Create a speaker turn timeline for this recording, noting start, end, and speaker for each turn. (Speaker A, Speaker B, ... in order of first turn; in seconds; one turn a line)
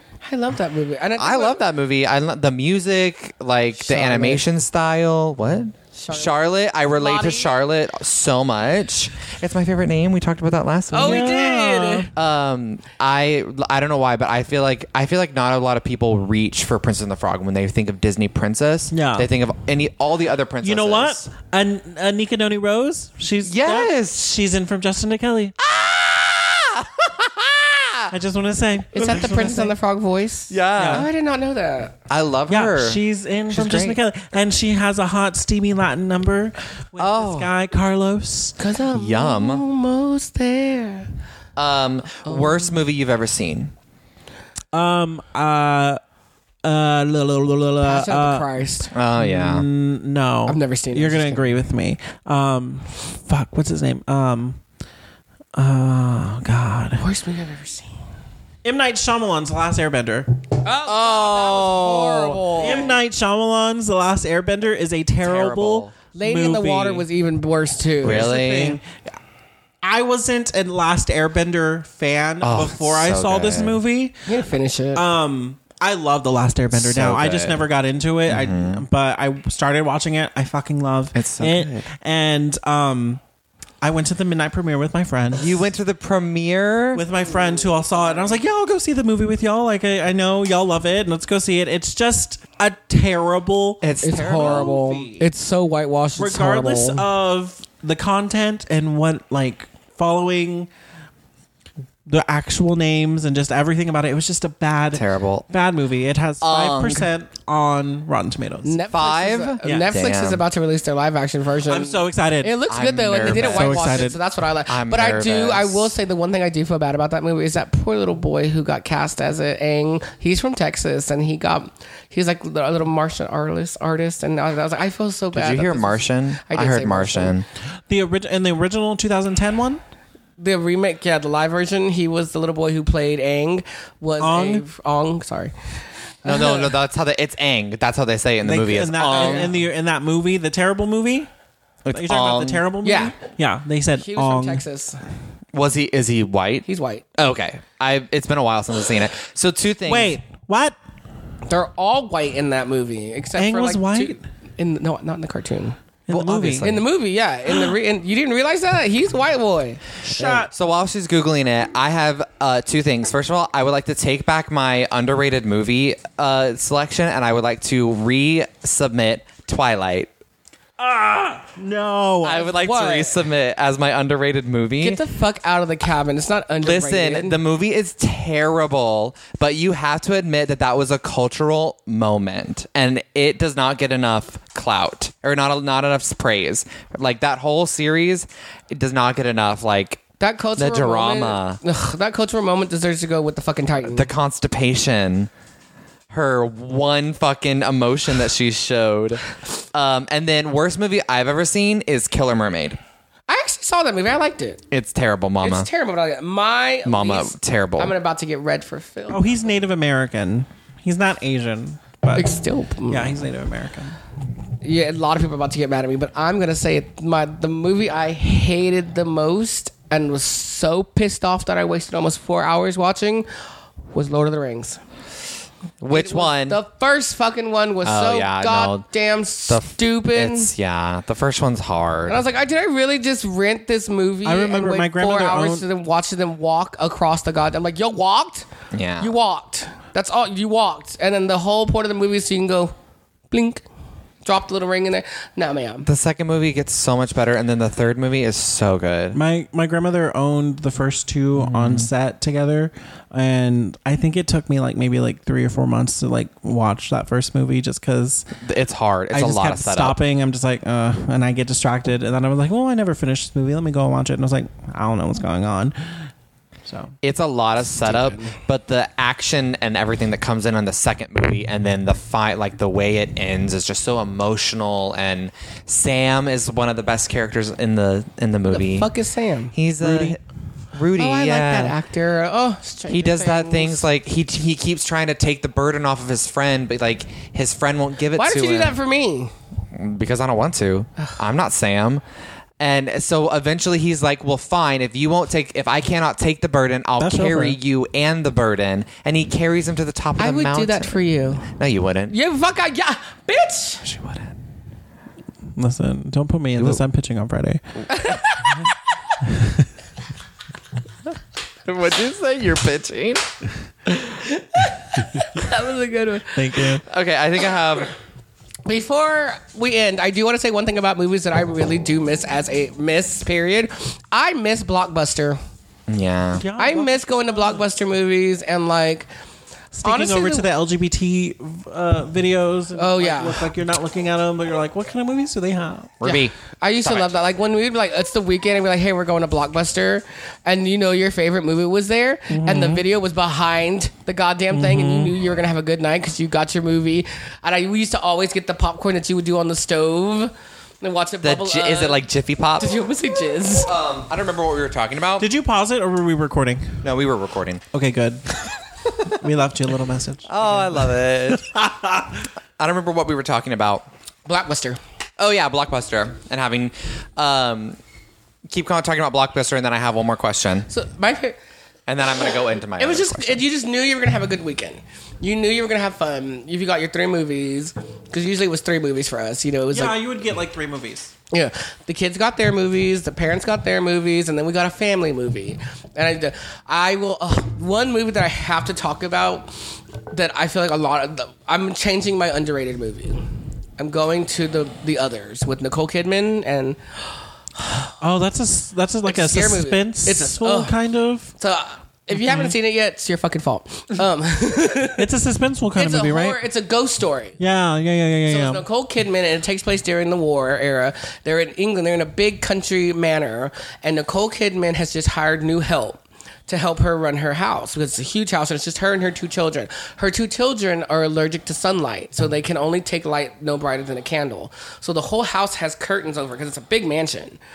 Speaker A: 0.2-1.6
Speaker B: 1.2-11.4
Speaker A: 3.8-4.4
Speaker A: 5.9-7.5
Speaker A: 10.9-12.1
Speaker C: 11.0-12.1
Speaker B: 12.1-21.2
Speaker C: 18.9-19.3
Speaker C: 20.6-25.6
Speaker B: 23.4-24.2
Speaker B: 25.6-28.1
Speaker C: 28.1-29.7
Speaker A: 28.9-31.9
Speaker B: 30.5-31.1
Speaker C: 30.8-31.1
Speaker B: 32.1-34.0
Speaker C: 32.5-38.5
Speaker B: 37.0-37.5
Speaker A: 38.6-41.1
Speaker B: 38.9-39.6
Speaker B: 41.5-43.7
Speaker A: 42.2-42.8
Speaker C: 44.7-46.0
Speaker C: 46.6-48.5
Speaker A: 47.8-48.9
Speaker B: 48.9-49.6
Speaker C: 49.1-54.6
Speaker A: 50.5-51.5
Speaker C: 55.5-57.0
Speaker A: 57.0-57.9
Speaker C: 58.6-67.0
Speaker A: 60.6-62.9
Speaker B: 65.2-65.9
Speaker A: 66.1-68.4
Speaker B: 68.0-68.8
Speaker C: 68.0-68.8
Speaker C: 69.8-74.1
Speaker B: 72.4-73.8
Speaker A: 74.2-75.0
Speaker C: 74.9-83.2
Speaker B: 76.7-77.7
Speaker B: 78.3-78.8
Speaker B: 81.1-81.9
Speaker C: 83.8-85.7
Speaker B: 85.3-87.0
Speaker C: 86.9-95.3
Speaker B: 93.8-94.7
Speaker A: 94.0-97.1
Speaker C: 96.2-100.7
Speaker C: 102.0-108.8
Speaker B: 104.9-105.5
Speaker B: 106.4-107.1
Speaker A: 108.6-127.3
Speaker B: 108.9-110.4
Speaker C: 109.6-109.9
Speaker C: 111.6-112.6
Speaker B: 112.7-114.0
Speaker C: 113.2-114.2
Speaker B: 114.7-115.9
Speaker B: 125.3-127.4
Speaker C: 127.9-129.8
Speaker A: 130.4-135.5
Speaker C: 134.2-134.6
Speaker A: 136.2-136.8
Speaker B: 136.2-139.5
Speaker C: 138.4-141.3
Speaker A: 139.1-139.5
Speaker B: 141.8-142.6
Speaker C: 141.9-144.6
Speaker A: 142.8-143.2
Speaker A: 144.0-145.0
Speaker B: 145.5-150.2
Speaker A: 146.7-147.1
Speaker C: 149.8-150.8
Speaker A: 151.4-155.8
Speaker C: 153.3-154.2
Speaker C: 156.1-156.8
Speaker B: 156.1-156.8
Speaker A: 156.6-160.5
Speaker C: 160.0-160.5
Speaker B: 160.4-170.1
Speaker C: 170.8-172.4
Speaker B: 172.2-175.0
Speaker A: 172.3-173.3
Speaker A: 174.8-177.4
Speaker B: 176.6-190.0
Speaker A: 190.2-194.1
Speaker B: 190.6-191.6
Speaker B: 193.8-195.3
Speaker B: 196.1-202.8
Speaker A: 203.3-204.6
Speaker B: 204.7-205.7
Speaker A: 205.4-209.4
Speaker B: 206.8-207.9
Speaker C: 209.1-212.3
Speaker A: 212.1-213.2
Speaker C: 212.9-214.0
Speaker A: 214.6-223.3
Speaker A: 223.9-224.8
Speaker B: 225.8-226.6
Speaker A: 225.9-230.5
Speaker B: 227.8-228.9
Speaker B: 229.5-232.2
Speaker A: 232.1-238.5
Speaker C: 234.2-235.6
Speaker B: 238.7-239.1
Speaker A: 239.0-242.7
Speaker A: 243.3-243.6
Speaker A: 244.2-245.9
Speaker B: 245.8-249.2
Speaker C: 249.1-258.3
Speaker B: 251.3-251.9
Speaker B: 258.4-260.0
Speaker C: 259.1-265.8
Speaker C: 266.6-266.9
Speaker B: 267.0-278.9
Speaker A: 267.8-268.4
Speaker A: 278.5-279.5
Speaker B: 279.5-280.2
Speaker C: 279.8-280.2
Speaker B: 280.7-281.7
Speaker A: 280.9-283.9
Speaker B: 282.9-288.8
Speaker A: 288.1-289.3
Speaker B: 289.7-292.0
Speaker B: 292.6-302.1
Speaker C: 297.0-297.6
Speaker A: 300.2-301.5
Speaker A: 302.1-303.8
Speaker B: 303.8-304.3
Speaker C: 305.6-307.6
Speaker A: 307.9-308.7
Speaker B: 311.6-313.3
Speaker A: 314.0-316.4
Speaker C: 316.3-316.8
Speaker B: 316.8-317.9
Speaker A: 318.6-325.4
Speaker B: 325.9-326.4
Speaker C: 326.4-327.7
Speaker A: 326.5-329.1
Speaker C: 329.7-335.9
Speaker A: 329.8-330.5
Speaker A: 332.7-333.5
Speaker B: 336.0-336.3
Speaker A: 336.0-352.0
Speaker B: 336.8-337.1
Speaker C: 342.3-342.8
Speaker C: 344.5-345.1
Speaker B: 351.2-352.7
Speaker A: 352.6-353.7
Speaker B: 353.6-355.3
Speaker C: 355.2-356.8
Speaker B: 356.8-357.6
Speaker C: 357.7-358.4
Speaker C: 359.1-361.0
Speaker B: 360.3-361.6
Speaker C: 361.5-362.0
Speaker B: 362.6-363.9
Speaker A: 364.3-364.8
Speaker B: 365.2-367.8
Speaker B: 368.5-370.7
Speaker A: 370.7-371.4
Speaker B: 371.9-373.4
Speaker A: 372.8-380.0
Speaker C: 379.7-381.1
Speaker A: 381.3-396.8
Speaker A: 397.6-397.9
Speaker C: 398.0-401.3
Speaker A: 399.0-400.8
Speaker A: 401.4-405.1
Speaker C: 402.1-402.5
Speaker C: 405.0-406.4
Speaker A: 405.7-407.4
Speaker C: 407.4-408.6
Speaker A: 408.3-427.4